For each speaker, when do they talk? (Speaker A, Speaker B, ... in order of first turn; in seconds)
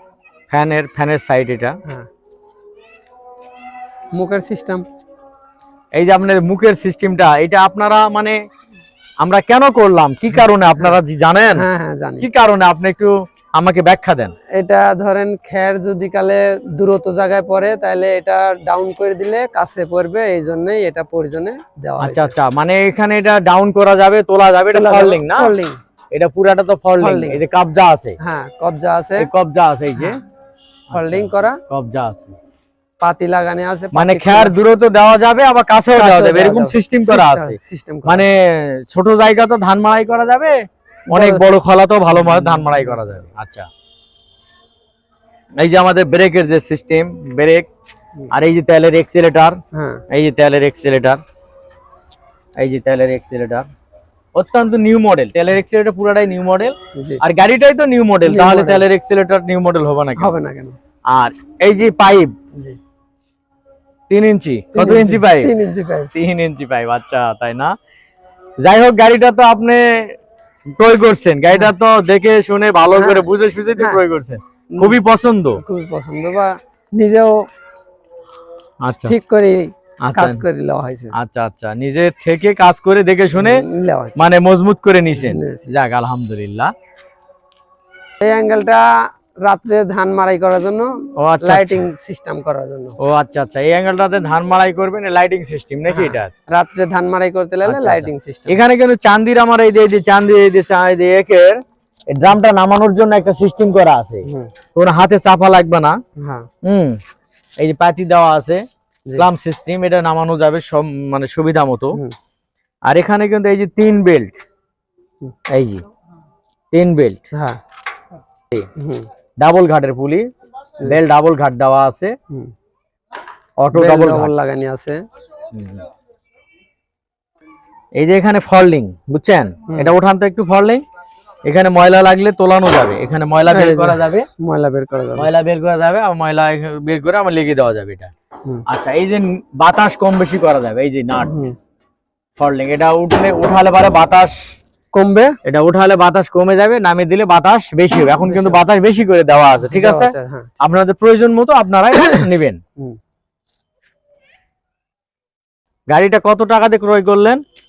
Speaker A: 0.5-1.8, 6.0-8.4, 9.2-11.7, 12.2-14.3, 22.0-25.5, 26.1-28.2, 29.2-30.2, 30.9-32.4, 33.9-40.6, 41.1-43.7, 45.6-47.7, 48.3-49.6, 50.1-51.2, 52.6-53.7, 54.4-60.3, 61.1-62.3, 64.1-65.5, 66.1-67.7, 68.6-70.1, 70.7-75.6, 78.8-79.1, 80.0-80.4, 81.1-83.6, 84.2-86.7, 91.2-91.8, 93.0-96.3, 97.6-101.6, 102.1-106.0, 106.6-107.0, 107.6-108.6, 109.2-112.0, 112.9-114.4, 115.5-115.8, 116.7-117.2, 119.4-120.3, 120.8-122.1, 123.6-124.3, 125.5-125.8, 128.0-130.8, 131.5-134.3, 135.2-138.1, 138.7-141.4, 142.4-144.4, 145.4-152.6, 155.9-157.4
Speaker B: 4.2-4.8, 11.5-12.3, 14.6-22.4, 24.7-25.8, 27.0-27.4, 28.2-29.3, 30.9-31.6, 33.0-34.5, 35.9-38.3, 41.1-41.5, 42.1-43.2, 49.7-50.0, 57.0-57.2, 58.2-58.8, 60.2-60.8, 64.8-66.1, 72.9-74.0, 74.7-75.0, 75.6-77.3, 79.0-81.1, 83.4-84.2, 85.2-85.7, 88.2-88.8, 89.4-90.9, 91.4-93.0, 95.9-98.6, 104.2-104.5, 106.2-106.5, 117.3-117.6, 118.8-119.1, 123.7-125.0, 133.5-135.3, 141.2-141.6, 144.9-145.4, 148.2-148.6, 149.7-150.5